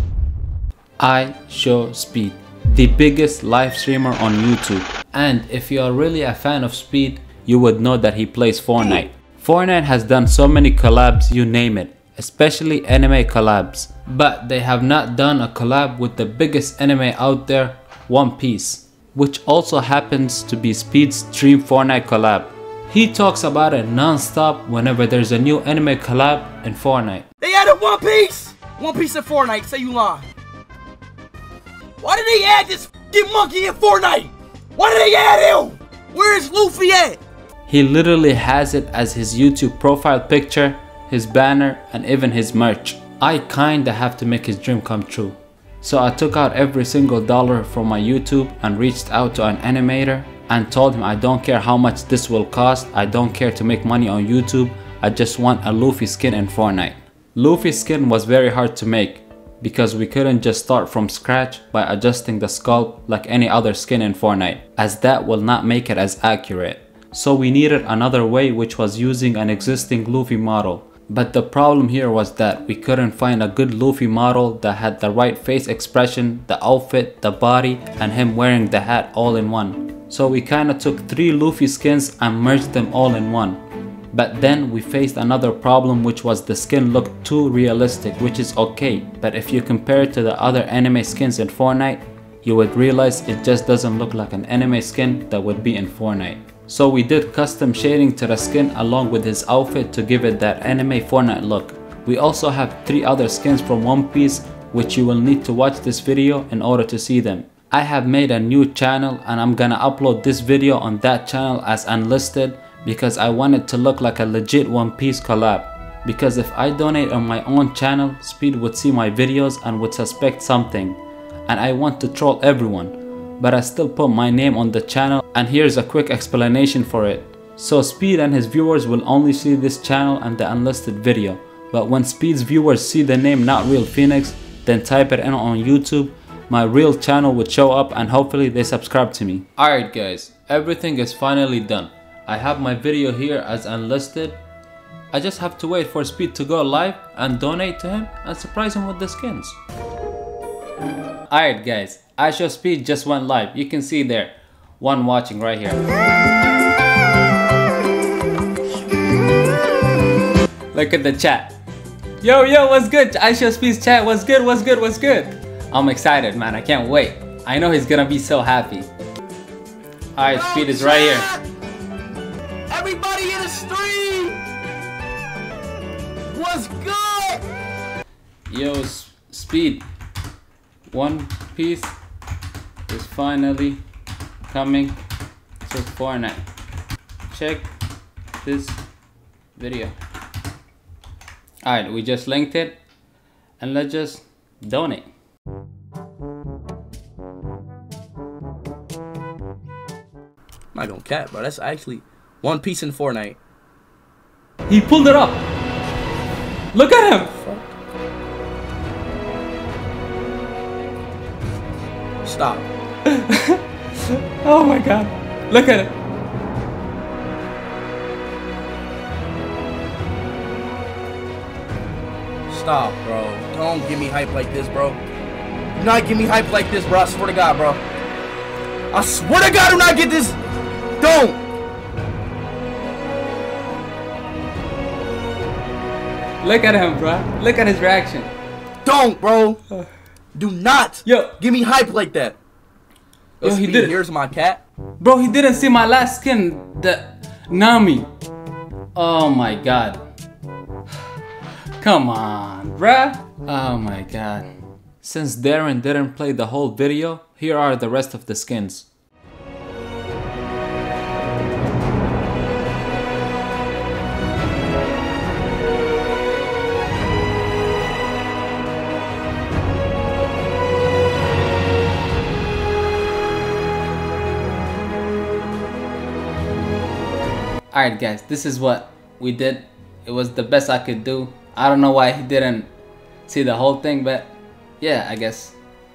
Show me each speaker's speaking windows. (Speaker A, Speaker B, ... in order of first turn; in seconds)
Speaker A: 1.0-27.2, 37.7-83.6, 84.1-144.4, 145.1-149.6, 151.3-155.8, 160.7-161.6, 162.2-168.9, 170.1-171.3, 178.5-179.8, 180.9-181.9, 182.9-183.8, 184.5-185.0, 185.6-186.4, 187.3-187.7, 188.4-188.8, 189.6-189.9, 191.6-192.8, 193.6-195.1, 204.7-205.4, 206.7-207.4, 213.1-215.9, 236.4-238.3, 241.0-241.3, 243.4-244.0, 245.0-248.1, 248.9-250.0, 251.8-254.5, 255.0-258.9, 277.7-282.7, 283.3-285.5
Speaker B: 27.4-30.3, 32.0-37.2, 170.3-171.4, 172.7-174.4, 176.3-177.4, 200.7-203.4, 212.2-212.7, 222.5-225.0, 225.8-227.8, 228.9-230.4, 231.0-231.4, 238.8-239.6, 240.3-242.4, 243.4-244.6